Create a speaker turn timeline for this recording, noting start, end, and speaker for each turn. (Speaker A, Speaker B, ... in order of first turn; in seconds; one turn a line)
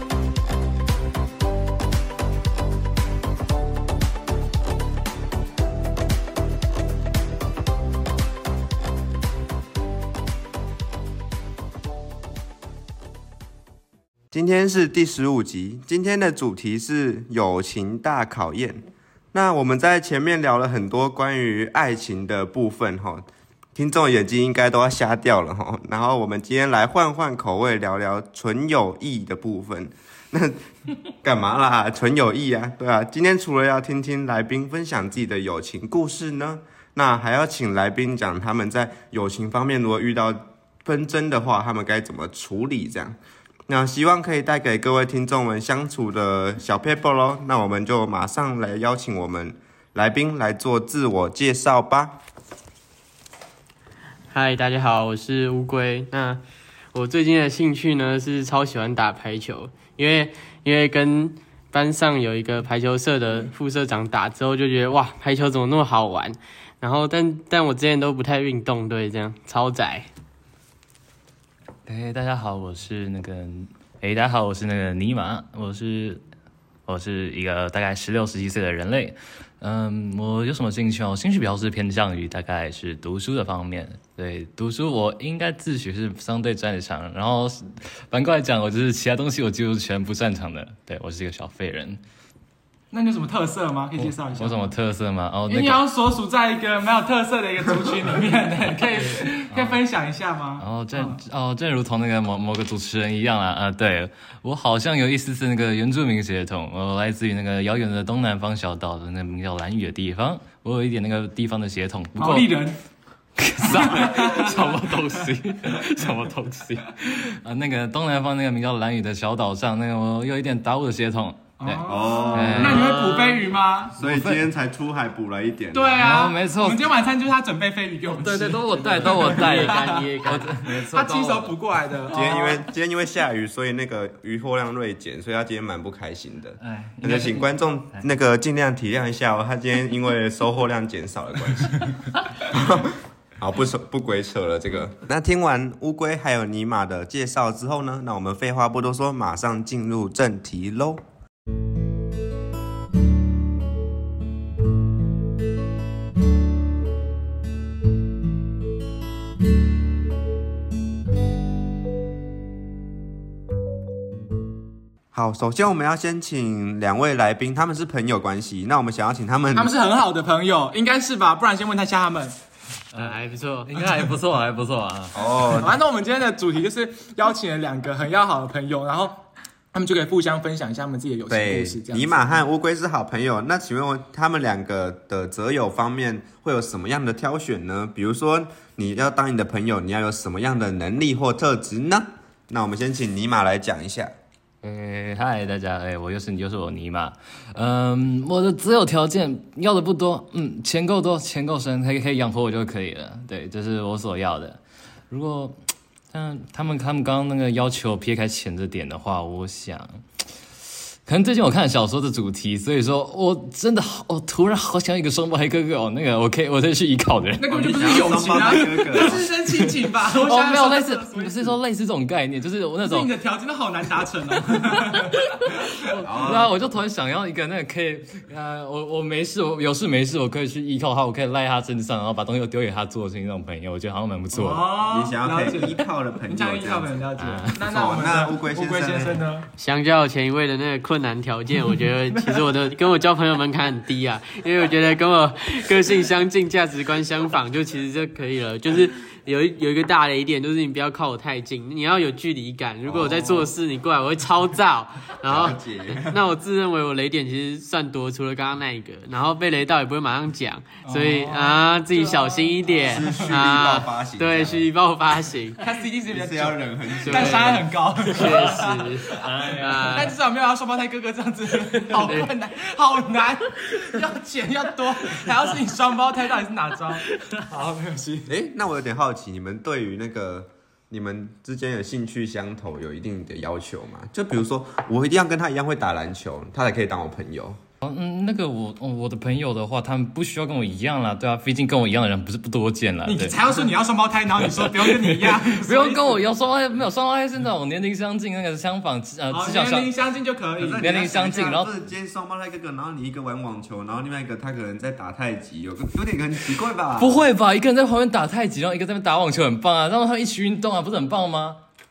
Speaker A: 14.3-30.7
Speaker A: 31.2-43.2
Speaker A: 43.7-52.2
Speaker B: 54.3-56.4
Speaker B: 56.9-70.1
Speaker C: 71.8-76.2
Speaker C: 76.9-92.0
Speaker D: 92.9-94.7
Speaker C: 94.0-95.8
Speaker D: 95.5-101.2
Speaker C: 99.5-99.8
Speaker C: 100.6-112.6
Speaker D: 112.2-112.8
Speaker C: 113.4-123.2
Speaker D: 113.6-114.7
Speaker D: 121.6-124.0
Speaker A: 121.8-122.8
Speaker B: 122.6-123.5
Speaker A: 123.9-126.0
Speaker C: 124.0-124.4
Speaker D: 125.7-132.6
Speaker C: 126.0-126.8
Speaker C: 128.1-131.5
Speaker B: 129.0-130.7
Speaker A: 132.1-151.0
Speaker C: 136.6-138.0
Speaker A: 165.1-169.7
Speaker D: 169.5-172.3
Speaker C: 172.9-175.5
Speaker B: 172.9-173.7
Speaker A: 175.1-175.7
Speaker D: 175.5-182.4
Speaker A: 181.3-194.1
Speaker C: 194.6-205.6
Speaker C: 206.1-210.0
Speaker C: 211.0-223.1
Speaker D: 217.4-221.6
Speaker A: 217.5-219.3
Speaker D: 222.8-225.8
Speaker C: 225.8-234.7
Speaker A: 226.0-226.5
Speaker D: 234.3-239.5
Speaker A: 234.8-236.9
Speaker C: 237.2-237.5
Speaker A: 237.6-239.2
Speaker B: 239.6-265.6
Speaker A: 252.8-253.5
Speaker A: 255.2-256.2
Speaker D: 260.8-263.3
Speaker A: 262.8-264.7
Speaker D: 265.6-278.3
Speaker A: 266.1-267.7
Speaker B: 267.0-270.1
Speaker C: 269.1-270.1
Speaker B: 271.9-272.3
Speaker A: 278.3-287.6
Speaker C: 287.8-293.4
Speaker D: 293.1-296.3
Speaker C: 294.5-299.9
Speaker D: 299.3-300.8
Speaker A: 300.6-307.2
Speaker C: 300.8-301.7
Speaker C: 307.0-311.6